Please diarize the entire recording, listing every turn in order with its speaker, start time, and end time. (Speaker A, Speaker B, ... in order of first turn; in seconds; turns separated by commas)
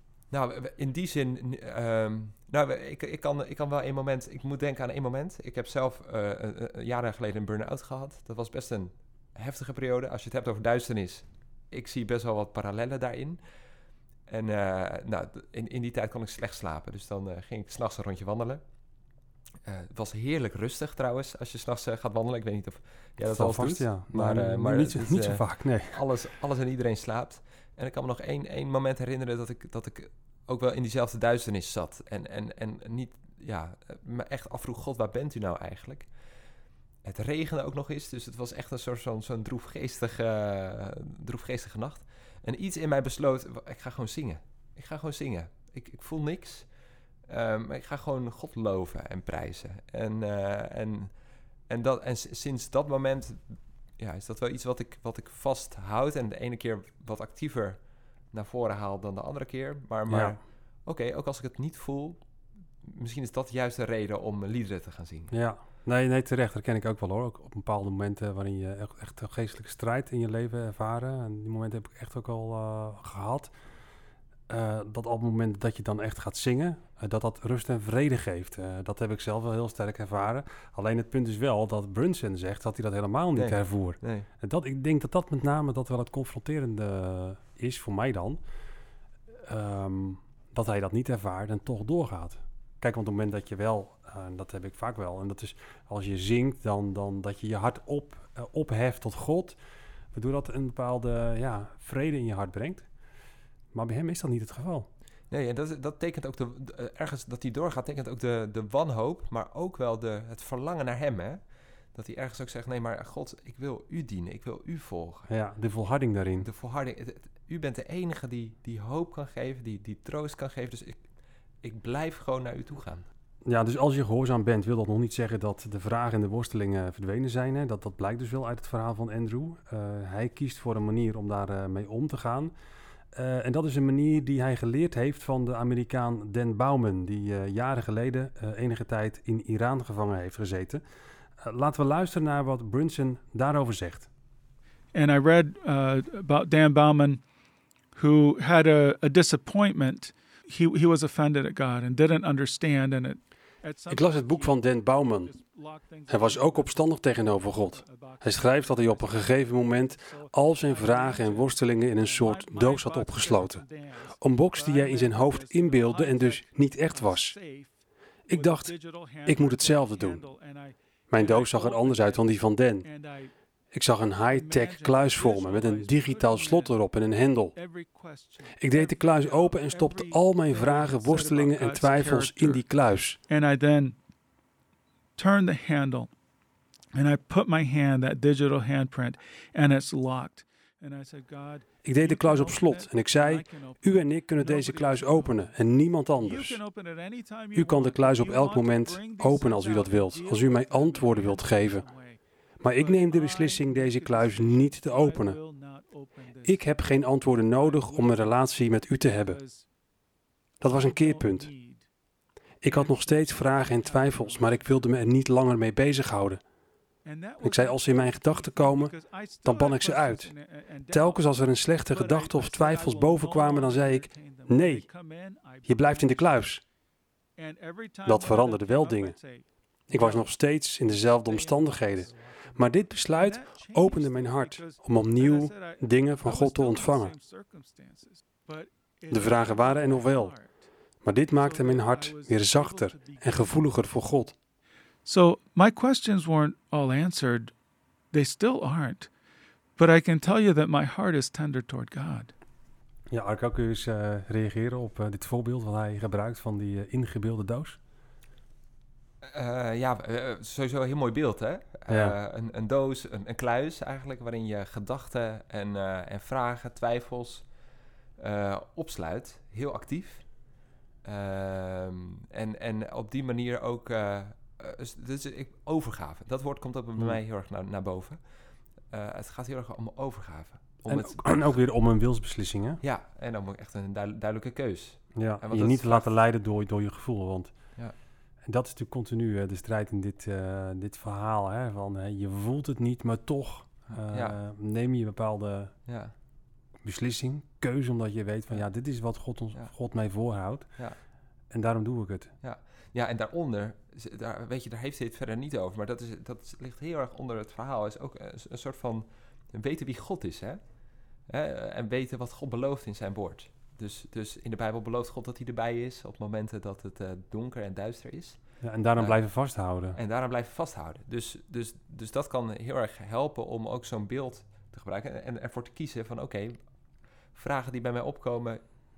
Speaker A: 0.3-13.4, Speaker A: 14.3-18.6, Speaker A: 19.6-36.1, Speaker B: 23.2-26.1, Speaker A: 37.0-46.7, Speaker A: 47.3-51.1, Speaker A: 51.7-57.8, Speaker A: 58.3-62.2, Speaker B: 60.1-60.4, Speaker A: 62.8-65.3, Speaker B: 65.3-73.5, Speaker B: 74.5-88.4, Speaker A: 83.3-84.3, Speaker B: 89.3-99.5, Speaker B: 100.1-102.9, Speaker B: 103.7-104.9, Speaker A: 105.3-111.4, Speaker A: 111.9-115.3, Speaker B: 115.3-116.5, Speaker A: 116.4-121.0, Speaker A: 121.6-123.0, Speaker B: 123.4-132.5, Speaker B: 133.1-140.8, Speaker B: 141.4-144.1, Speaker C: 144.9-147.2, Speaker C: 147.9-167.7, Speaker B: 153.9-155.3, Speaker B: 156.1-163.6, Speaker B: 164.2-167.4, Speaker B: 168.3-168.7, Speaker C: 168.3-172.3, Speaker B: 169.2-170.2, Speaker B: 171.1-172.8, Speaker C: 172.8-173.3, Speaker B: 173.7-177.5, Speaker C: 174.3-176.8, Speaker C: 177.5-182.6, Speaker B: 178.6-183.2, Speaker C: 183.3-183.9, Speaker C: 185.2-186.1, Speaker C: 186.9-195.5, Speaker B: 191.8-196.6, Speaker C: 196.2-202.2, Speaker B: 197.5-201.8, Speaker B: 202.6-205.4, Speaker C: 202.7-208.4, Speaker B: 206.4-209.4, Speaker C: 209.1-209.7, Speaker B: 210.6-211.5, Speaker C: 210.6-211.8, Speaker B: 212.6-216.4, Speaker C: 212.6-215.0, Speaker C: 217.0-226.4, Speaker B: 217.4-218.9, Speaker B: 219.4-220.3, Speaker B: 220.9-224.8, Speaker B: 225.7-226.6, Speaker C: 227.4-230.3, Speaker B: 228.1-229.1, Speaker B: 229.9-237.1, Speaker C: 231.0-240.7, Speaker B: 239.1-240.3, Speaker B: 241.0-244.3, Speaker C: 241.3-243.7, Speaker C: 245.0-247.5, Speaker C: 248.1-249.1, Speaker C: 249.8-252.3, Speaker B: 253.1-257.8, Speaker A: 259.2-267.5, Speaker B: 261.9-262.1, Speaker A: 268.2-270.3, Speaker A: 271.0-278.2, Speaker A: 278.9-281.6, Speaker B: 280.9-282.8, Speaker A: 282.8-286.1, Speaker B: 285.1-287.5, Speaker B: 288.4-295.7, Speaker A: 293.9-294.4, Speaker A: 295.9-296.1, Speaker B: 296.8-300.7, Speaker B: 301.5-302.3, Speaker A: 302.4-310.6, Speaker A: 311.3-318.4, Speaker B: 318.6-320.0, Speaker A: 319.9-326.6, Speaker A: 327.3-328.6